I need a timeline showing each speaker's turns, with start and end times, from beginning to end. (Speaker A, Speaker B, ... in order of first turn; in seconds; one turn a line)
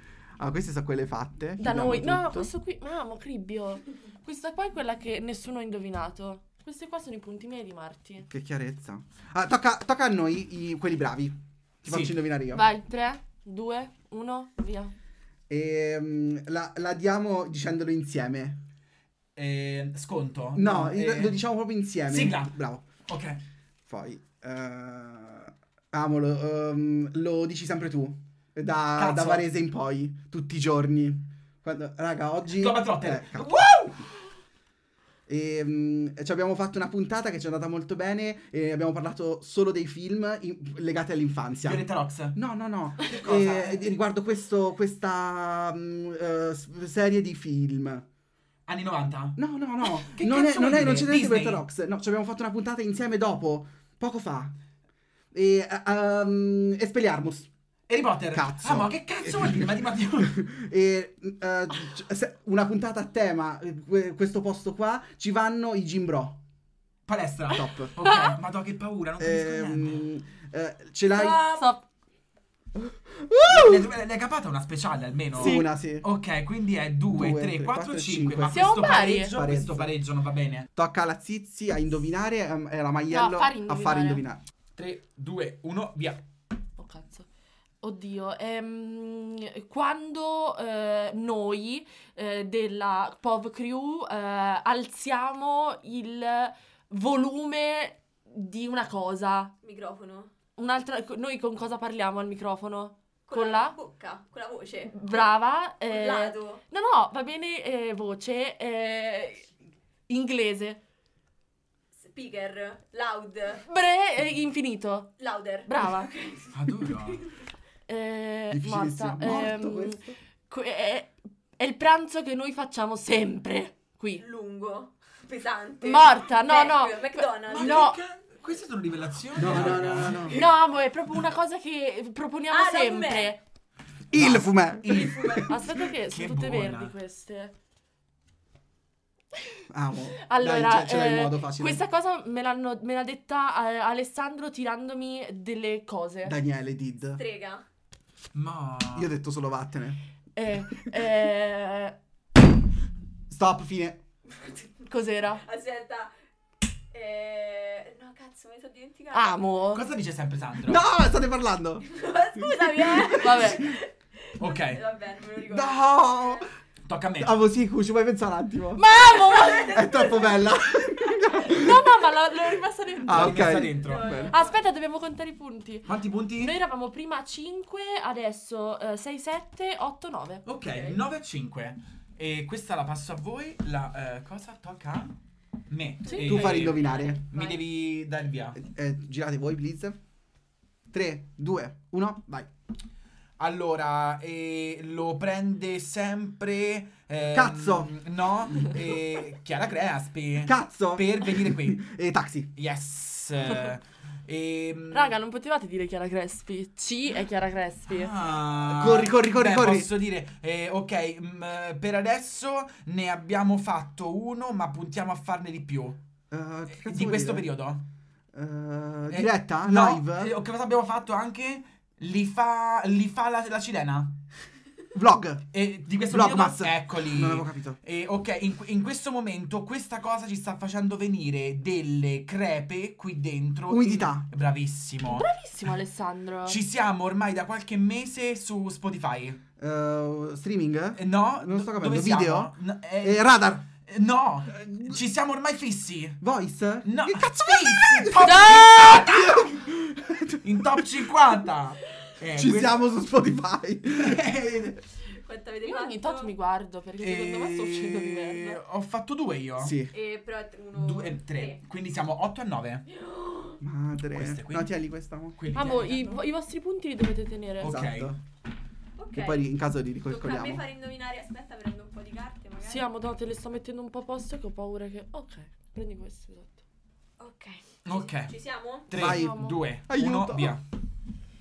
Speaker A: 0.4-2.5
Speaker B: 1.6-8.3
Speaker A: 8.3-12.7
Speaker C: 11.9-12.2
Speaker B: 12.5-14.9
Speaker A: 15.5-18.6
Speaker C: 19.4-21.4
Speaker A: 20.6-22.9
Speaker C: 22.1-22.5
Speaker C: 23.1-23.4
Speaker A: 23.9-33.7
Speaker C: 29.0-29.4
Speaker C: 32.5-34.0
Speaker A: 35.3-48.0
Speaker C: 41.6-42.4
Speaker C: 43.0-43.9
Speaker C: 48.7-51.6
Speaker A: 49.4-54.5
Speaker A: 55.3-57.5
Speaker C: 57.9-60.4
Speaker A: 58.3-66.4
Speaker C: 67.1-70.1
Speaker A: 67.5-67.9
Speaker B: 68.0-68.3
Speaker A: 69.2-71.5
Speaker D: 71.1-71.7
Speaker B: 71.5-71.8
Speaker A: 72.8-73.9
Speaker C: 73.5-80.7
Speaker A: 75.3-76.1
Speaker B: 75.4-75.7
Speaker A: 77.1-79.9
Speaker B: 78.5-79.3
Speaker A: 80.8-84.4
Speaker B: 83.1-84.2
Speaker C: 84.8-86.2
Speaker B: 86.8-87.3
Speaker B: 87.8-99.5
Speaker D: 99.6-100.3
Speaker B: 100.6-103.8
Speaker D: 103.3-105.3
Speaker B: 104.9-109.5
Speaker D: 105.8-106.6
Speaker B: 110.1-110.8
Speaker D: 112.0-113.6
Speaker B: 113.6-116.1
Speaker D: 115.2-117.3
Speaker C: 116.5-117.2
Speaker B: 117.9-124.2
Speaker A: 118.5-120.1
Speaker D: 124.2-127.9
Speaker B: 125.8-128.0
Speaker C: 127.5-130.2
Speaker A: 129.3-130.5
Speaker B: 130.3-133.4
Speaker D: 132.5-133.3
Speaker A: 134.1-135.6
Speaker C: 134.1-136.9
Speaker D: 135.0-135.4
Speaker B: 135.4-137.5
Speaker A: 139.7-141.8
Speaker B: 140.2-146.4
Speaker A: 146.2-147.2
Speaker D: 147.2-147.7
Speaker C: 148.3-149.1
Speaker A: 148.9-150.0
Speaker B: 150.4-152.0
Speaker A: 153.3-154.0
Speaker D: 154.3-154.9
Speaker B: 154.9-155.4
Speaker D: 155.4-156.1
Speaker D: 156.9-159.5
Speaker B: 159.1-159.8
Speaker C: 159.7-160.8
Speaker A: 160.6-161.9
Speaker D: 161.8-166.5
Speaker A: 162.4-163.7
Speaker B: 163.2-163.7
Speaker C: 164.4-164.8
Speaker A: 165.4-166.5
Speaker C: 166.9-167.3
Speaker A: 167.2-168.8
Speaker B: 168.8-169.9
Speaker D: 169.0-171.6
Speaker A: 169.7-171.8
Speaker B: 171.4-173.5
Speaker A: 173.0-174.3
Speaker C: 173.1-174.2
Speaker D: 173.8-174.6
Speaker B: 174.3-180.4
Speaker C: 175.9-176.6
Speaker C: 180.4-185.1
Speaker D: 180.7-181.0
Speaker C: 185.7-188.6
Speaker B: 186.1-186.7
Speaker A: 186.2-187.2
Speaker A: 188.6-190.0
Speaker A: 190.9-192.5
Speaker C: 193.4-201.8
Speaker A: 197.3-197.9
Speaker A: 200.4-202.5
Speaker C: 202.6-205.1
Speaker B: 204.9-208.1
Speaker C: 207.9-216.0
Speaker A: 208.7-209.9
Speaker A: 216.3-217.5
Speaker C: 216.8-217.8
Speaker A: 218.3-220.3
Speaker C: 219.1-224.2
Speaker A: 224.9-225.5
Speaker C: 225.5-235.3
Speaker A: 226.1-227.8
Speaker A: 233.7-234.3
Speaker B: 235.1-236.6
Speaker C: 236.5-239.4
Speaker A: 239.6-243.7
Speaker C: 241.0-246.2
Speaker A: 246.2-250.8
Speaker C: 246.8-249.6
Speaker B: 248.2-249.1
Speaker C: 250.4-252.9
Speaker A: 252.3-254.7
Speaker C: 253.9-254.8
Speaker D: 255.1-256.3
Speaker B: 255.6-258.6
Speaker C: 257.0-259.8
Speaker A: 259.6-259.9
Speaker D: 259.9-261.6
Speaker C: 260.7-262.9
Speaker D: 262.9-263.6
Speaker A: 263.6-265.4
Speaker C: 264.1-264.7
Speaker C: 265.4-266.2
Speaker B: 265.5-267.7
Speaker C: 267.6-268.1
Speaker A: 267.6-268.2
Speaker D: 269.0-269.4
Speaker A: 269.1-270.6
Speaker D: 270.1-272.9
Speaker B: 272.6-276.6
Speaker D: 277.2-278.9
Speaker C: 277.9-278.3
Speaker C: 278.9-280.6
Speaker A: 278.9-280.6
Speaker B: 279.0-279.6